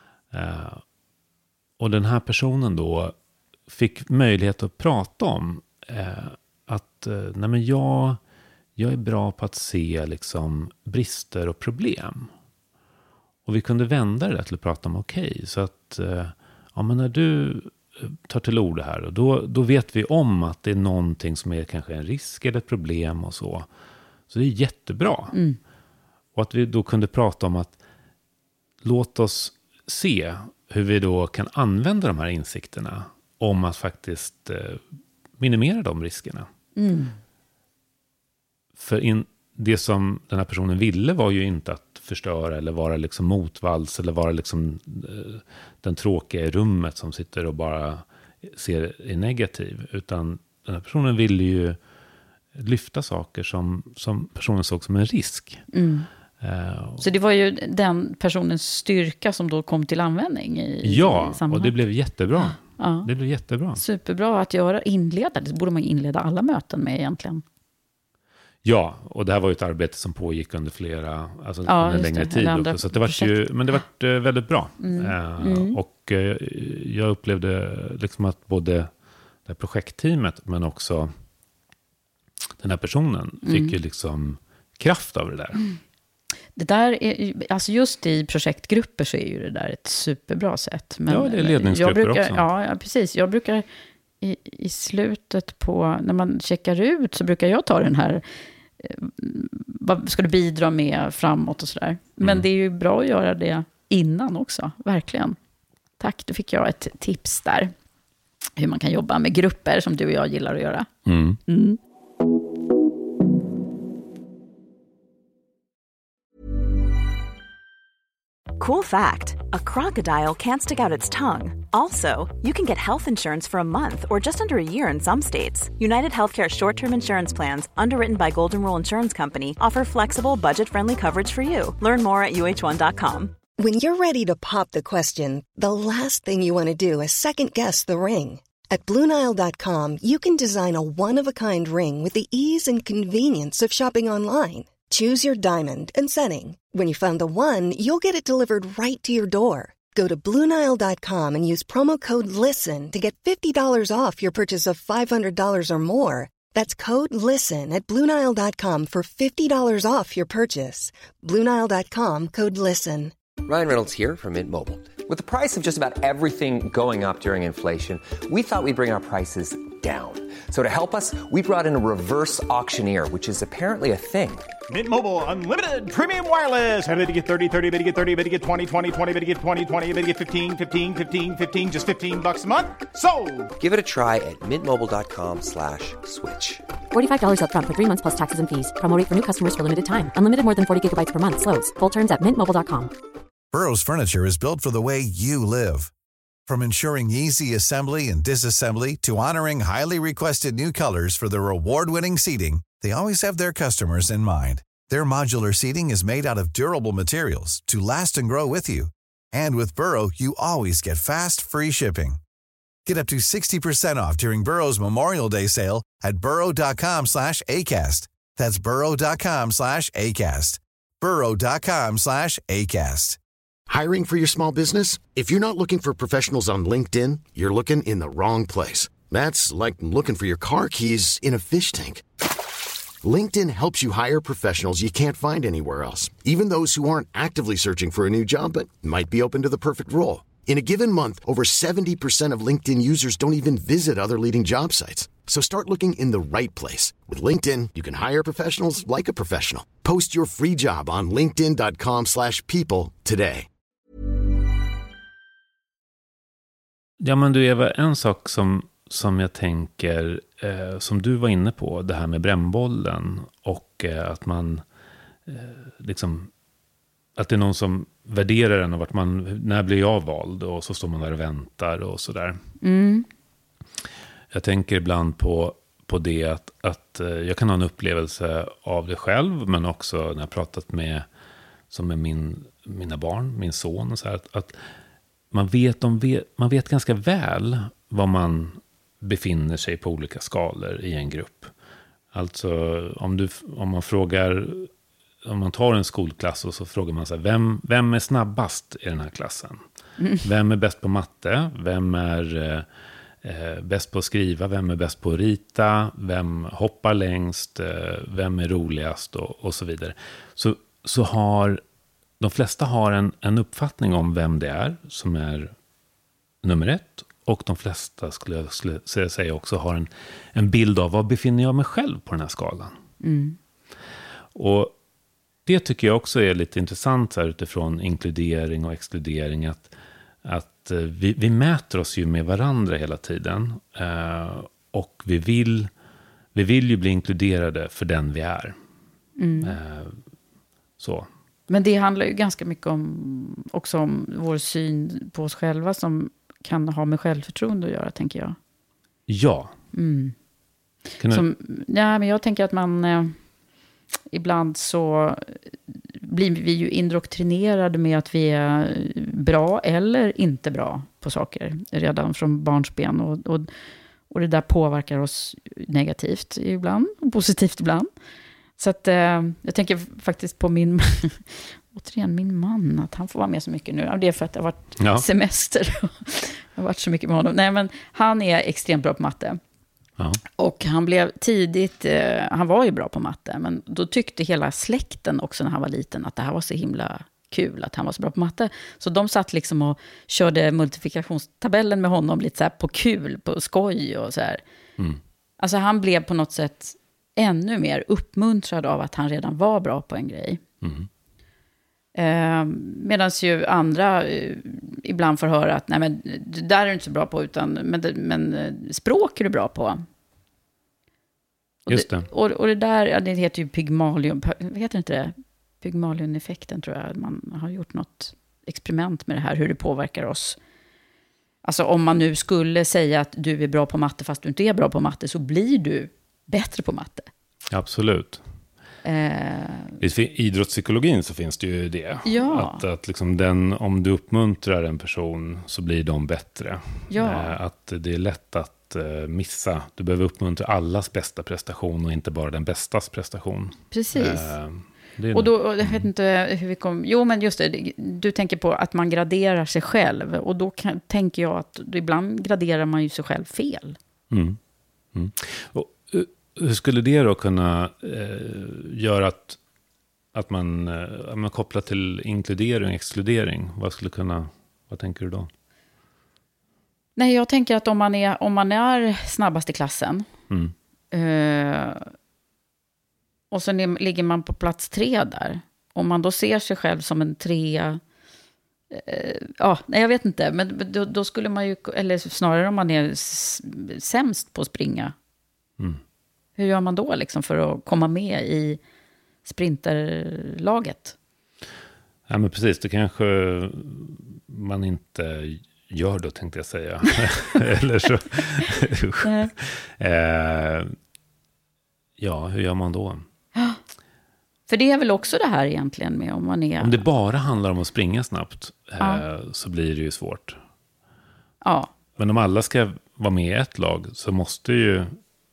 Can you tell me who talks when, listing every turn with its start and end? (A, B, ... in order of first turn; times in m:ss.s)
0:00.3-0:00.8 A
0:01.8-0:03.1 A
0:03.7-0:08.2 A
0:08.8-0:12.3 A
0:13.4-0:23.7 A
0:24.3-0:25.4 A
0:25.3-0:25.6 B
0:26.3-0:27.8 A
0:28.8-0:34.8 A
0:35.4-0:36.5 A
0:36.8-0:37.2 B
0:38.8-0:51.8 A
0:52.5-0:55.6 A
0:55.7-0:56.1 B
0:56.4-0:57.0 A
0:57.0-1:01.7 B
1:00.8-1:03.8 A
1:02.8-1:03.1 B
1:03.8-1:07.4 B
1:08.6-1:18.9 A
1:11.6-1:13.3 B
1:14.8-1:15.8 B
1:19.4-1:21.1 A
1:22.6-1:25.6 A
1:23.4-1:23.7 B
1:26.6-1:33.6 B
1:31.1-1:32.4 A
1:34.2-1:38.2 B
1:38.8-1:45.4 B
1:42.2-1:42.5 A
1:46.0-1:47.7 B
1:48.6-1:50.9 B
1:51.0-1:51.4 A
1:51.5-1:51.8 B
1:58.6-2:13.3 C
2:13.6-2:43.1 D
2:43.4-2:54.5 E
2:54.7-3:03.5 F
3:03.6-3:06.6 E
3:06.9-3:12.9 G
3:13.5-3:15.9 H
3:16.5-3:32.2 H
3:32.8-3:43.2 H
3:43.7-3:52.0 I
3:53.0-4:13.5 I
4:17.0-4:24.6 A
4:25.2-4:26.3 A
4:27.2-4:32.4 A
4:32.6-4:33.0 B
4:34.3-4:41.1 A
4:41.7-4:44.6 A
4:45.3-4:51.5 A
4:52.1-4:54.7 A
4:55.2-4:59.6 A
5:00.0-5:00.2 B
5:00.2-5:02.7 A
5:03.2-5:11.6 A
5:12.2-5:15.5 A
5:16.4-5:22.8 A
5:23.0-5:23.4 B
5:24.3-5:24.7 A
5:25.4-5:29.7 A
5:30.2-5:35.7 A
5:36.3-5:38.6 A
5:39.2-5:39.6 B
5:39.4-5:40.0 A
5:40.8-5:41.1 A
5:41.5-5:48.4 B
5:49.1-5:49.5 A
5:49.7-5:50.1 B
5:51.0-5:51.2 A
5:51.1-5:53.1 B
5:54.1-6:03.5 B
6:04.1-6:07.9 B
6:08.6-6:19.4 B
6:14.8-6:15.0 A
6:20.4-6:34.4 B
6:35.4-6:40.4 B
6:40.6-6:40.9 A
6:41.9-6:49.8 B
6:51.7-6:52.1 A
6:51.7-7:00.4 B
7:01.4-7:07.1 B
7:07.5-7:08.2 A
7:08.8-7:09.8 B
7:09.8-7:25.9 A
7:12.0-7:12.6 B
7:16.9-7:17.4 B
7:23.7-7:24.3 B
7:25.1-7:33.8 B
7:34.1-7:34.4 A
7:34.9-7:39.4 A
7:40.1-7:45.3 A
7:47.0-7:50.0 B
7:50.9-7:51.9 B
7:53.3-7:57.8 B
7:58.7-8:04.9 B
8:06.4-8:08.6 B
8:09.2-8:10.9 B
8:12.1-8:20.7 A
8:19.0-8:19.3 B
8:22.0-8:23.1 A
8:24.5-8:26.8 B
8:26.6-8:30.4 A
8:31.4-8:31.7 B
8:32.0-8:34.9 A